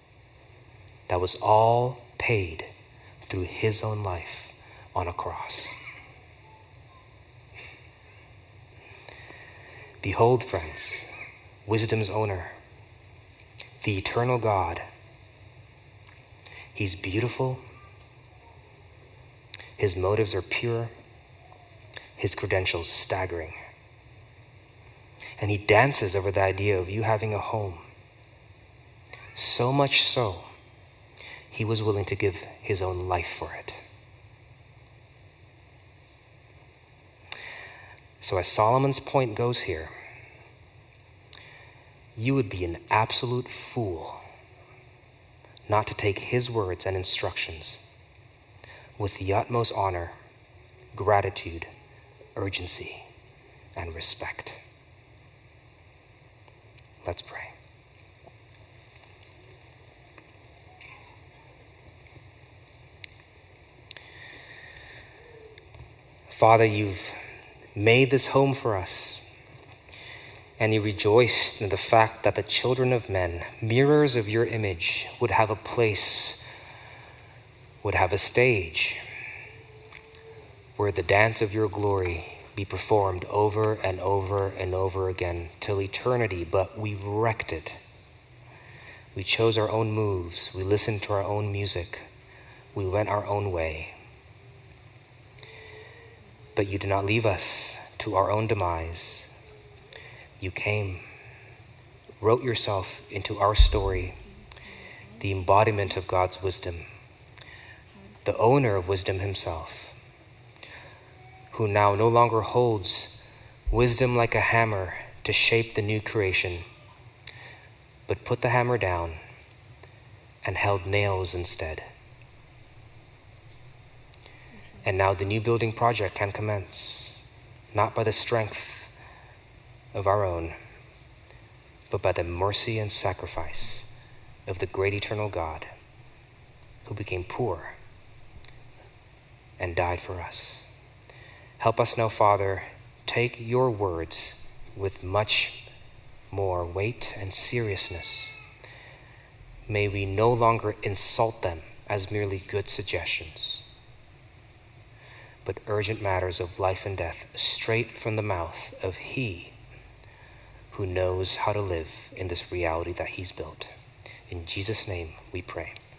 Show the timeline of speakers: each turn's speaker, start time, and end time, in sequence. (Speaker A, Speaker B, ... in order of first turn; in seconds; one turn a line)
Speaker A: 1.1-2.7
Speaker A: 3.2-5.7
Speaker A: 10.0-11.1
Speaker A: 11.7-12.6
Speaker A: 13.8-14.8
Speaker A: 16.7-17.6
Speaker A: 19.8-20.9
Speaker A: 22.2-23.6
Speaker A: 25.4-27.9
Speaker A: 29.3-30.5
Speaker A: 31.5-33.8
Speaker A: 38.2-39.9
Speaker A: 42.1-44.2
Speaker A: 45.7-47.8
Speaker A: 49.0-50.1
Speaker A: 50.9-51.7
Speaker A: 52.4-53.1
Speaker A: 53.8-54.6
Speaker A: 57.0-57.5
Speaker A: 66.3-67.1
Speaker A: 67.7-69.2
Speaker A: 70.6-76.4
Speaker A: 77.8-79.0
Speaker A: 80.8-87.8
Speaker A: 89.1-92.0
Speaker A: 92.7-93.9
Speaker A: 96.5-99.3
Speaker A: 100.4-101.0
Speaker A: 102.2-104.2
Speaker A: 105.2-106.8
Speaker A: 108.2-109.9
Speaker A: 111.5-113.2
Speaker A: 113.7-116.7
Speaker A: 118.1-119.2
Speaker A: 120.4-121.8
Speaker A: 124.8-127.2
Speaker A: 127.7-128.9
Speaker A: 129.9-130.6
Speaker A: 131.9-133.9
Speaker A: 134.5-135.7
Speaker A: 136.8-137.8
Speaker A: 139.6-140.7
Speaker A: 141.6-145.7
Speaker A: 146.3-148.4
Speaker A: 149.7-153.6
Speaker A: 155.4-159.6
Speaker A: 160.7-163.7
Speaker A: 164.3-165.8